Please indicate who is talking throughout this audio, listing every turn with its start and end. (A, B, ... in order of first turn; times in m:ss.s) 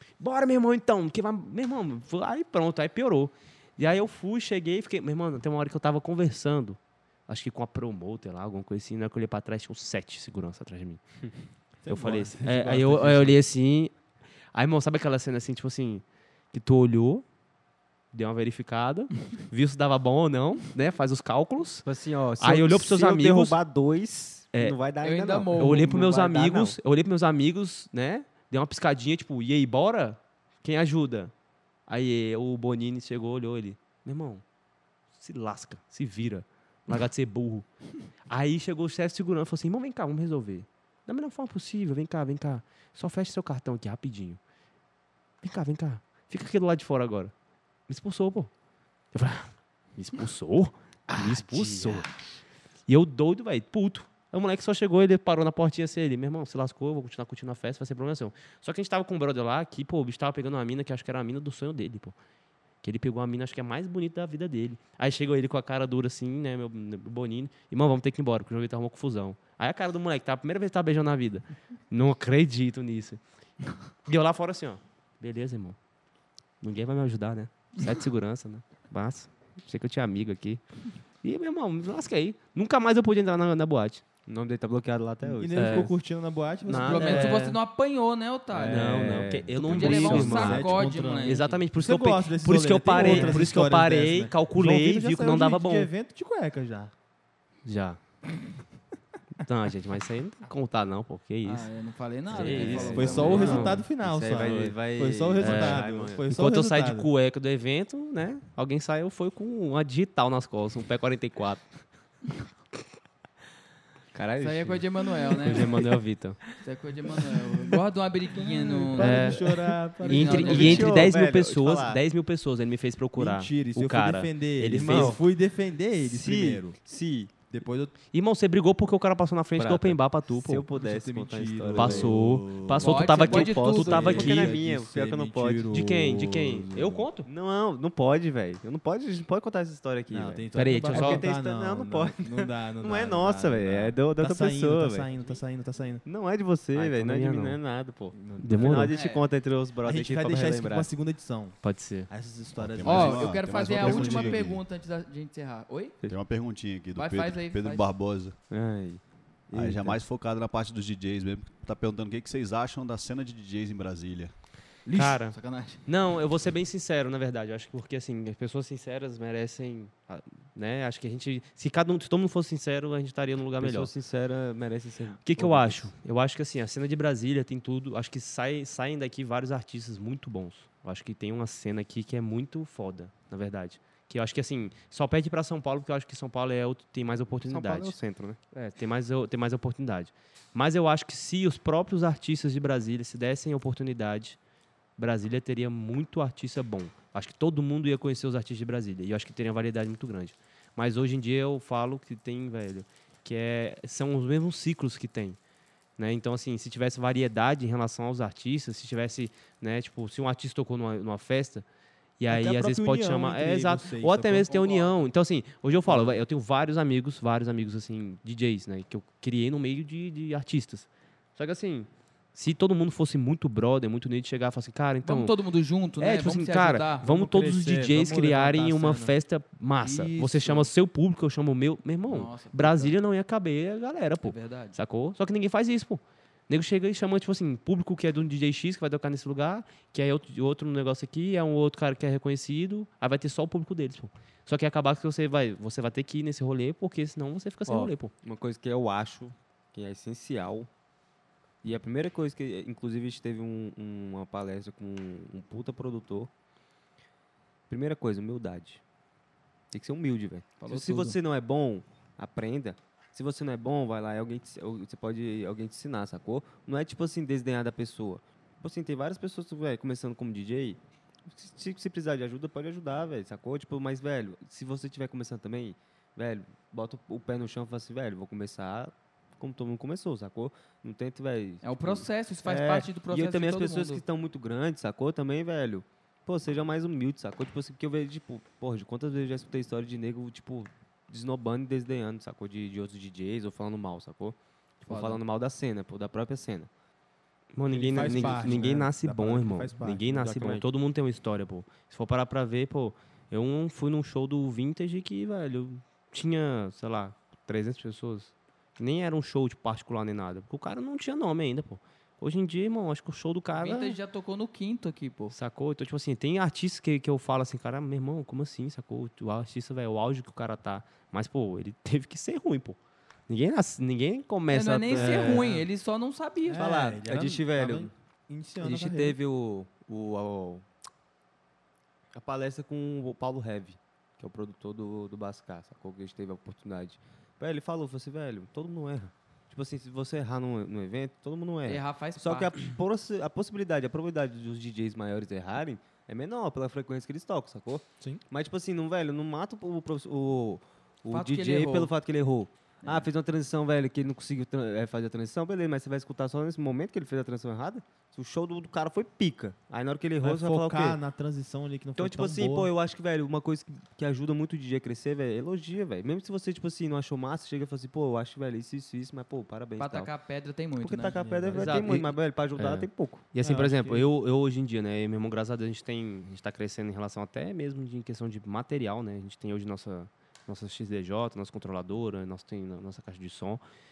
0:00.2-0:11.2 A
0:11.8-0:13.4 B
0:11.8-0:13.9 A
0:14.5-0:17.2 A
0:18.1-0:21.8 A
0:21.8-0:26.8 C
0:22.4-0:23.6 A
0:25.0-0:25.8 D
0:25.6-0:31.3 A
0:31.9-0:34.4 A
0:35.1-0:37.7 A
0:38.3-0:44.4 A
0:45.4-0:47.3 A
0:47.9-0:48.5 A
0:49.1-0:52.1 A
0:51.1-0:52.4 C
0:52.9-1:02.1 A
1:02.8-1:13.2 A
1:14.0-1:15.8 A
1:16.6-1:20.6 A
1:21.2-1:24.0 A
1:24.2-1:25.9 C
1:25.2-1:27.4 B
1:25.5-1:25.9 A
1:26.6-1:27.6 A
1:26.8-1:28.8 D
1:28.5-1:30.6 C
1:28.7-1:35.9 A
1:29.6-1:31.4 D
1:29.8-1:36.9 B
1:32.9-1:33.5 C
1:37.6-1:38.0 A
1:39.4-1:41.7 A
1:41.4-1:43.7 D
1:42.3-1:43.8 A
1:42.3-1:46.2 C
1:42.6-1:47.1 B
1:45.4-1:51.8 A
1:54.1-1:54.8 C
1:54.4-1:55.8 D
1:55.4-1:56.4 A
1:56.6-1:59.4 D
1:58.4-2:01.2 B
1:59.0-1:59.4 A
2:00.0-2:05.2 A
2:00.0-2:01.1 D
2:00.3-2:02.0 C
2:03.2-2:06.8 B
2:04.7-2:05.2 C
2:06.0-2:07.3 C
2:07.5-2:07.9 B
2:08.1-2:10.6 A
2:09.6-2:12.3 C
2:10.7-2:17.1 B
2:11.7-2:14.6 A
2:12.8-2:14.2 D
2:13.2-2:15.7 C
2:15.7-2:17.3 A
2:17.2-2:25.1 C
2:20.1-2:26.0 B
2:20.5-2:21.2 A
2:26.0-2:30.9 C
2:26.7-2:27.6 A
2:28.1-2:29.0 B
2:28.4-2:28.9 A
2:28.9-2:29.2 D
2:29.8-2:34.6 B
2:31.6-2:32.1 A
2:32.6-2:34.6 E
2:32.8-2:36.0 D
2:36.1-2:38.4 E
2:36.9-2:37.9 D
2:38.5-2:40.0 C
2:39.5-2:44.3 E
2:44.9-2:53.9 A
2:44.9-2:45.8 D
2:53.6-2:55.9 C
2:55.2-3:08.0 A
3:07.4-3:08.4 C
3:08.5-3:14.4 A
3:15.0-3:25.4 A
3:26.0-3:31.6 A
3:32.2-3:45.4 A
3:32.3-3:34.5 B
3:34.4-3:35.0 D
3:45.0-3:47.0 D
3:46.0-4:08.1 A
3:47.0-3:49.2 B
3:49.8-3:50.7 D
3:52.1-3:52.9 D
3:54.2-3:54.8 D
4:07.6-4:10.7 C
4:11.6-4:16.3 C
4:17.7-4:18.8 C
4:19.7-4:56.7 C
4:20.6-4:21.2 D
4:41.6-4:44.0 D
4:54.8-4:55.2 D
4:57.5-5:14.0 A
4:57.7-4:58.9 C
4:57.9-5:00.6 B
5:13.5-5:15.3 D
5:15.3-5:22.8 A
5:23.3-5:25.5 A
5:24.5-5:26.7 D
5:25.0-5:25.6 B
5:26.4-5:29.2 B
5:26.5-5:27.9 C
5:28.6-5:30.6 C
5:32.1-6:01.0 C
5:41.6-5:42.6 D
5:51.1-5:51.9 D
5:52.8-5:53.1 D
6:00.2-6:02.7 B
6:02.0-6:10.1 C
6:09.8-6:11.3 D
6:10.8-6:13.2 C
6:11.1-6:11.9 B
6:11.5-6:23.6 A
6:13.4-6:14.1 B